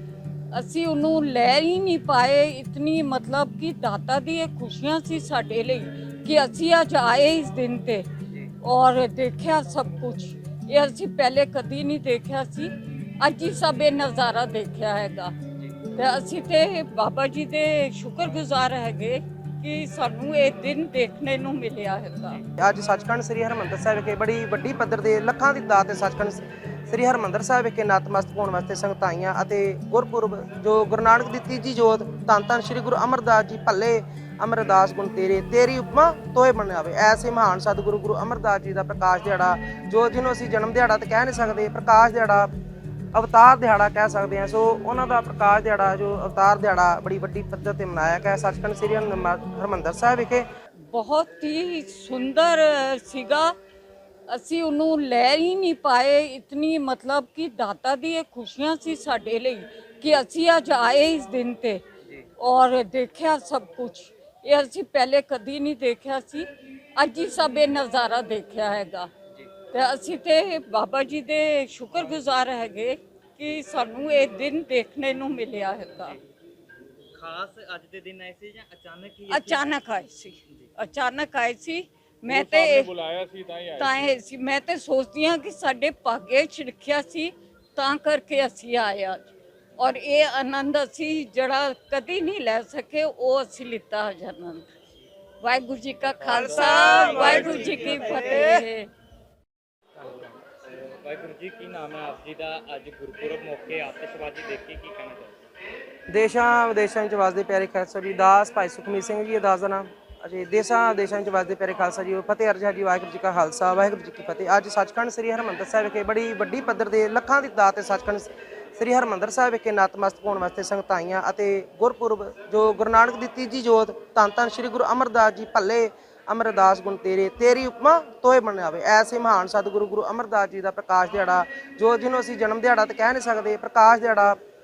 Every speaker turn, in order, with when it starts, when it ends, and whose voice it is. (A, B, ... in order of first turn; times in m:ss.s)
0:00.5-0:08.0 A
0:08.6-0:15.3 A
0:16.0-0:22.4 A
0:22.6-0:42.5 B
0:43.1-0:50.4 B
0:50.9-0:53.5 A
0:54.3-1:01.8 A
1:02.4-1:09.1 A
1:09.7-1:16.2 A
1:17.1-1:19.7 C
1:19.3-1:22.9 A
1:22.3-1:24.2 D
1:23.8-1:34.7 A
1:35.4-1:38.9 A
1:36.2-1:38.4 D
1:36.4-1:37.4 B
1:36.7-1:38.4 C
1:40.0-1:45.4 C
1:46.1-2:14.4 B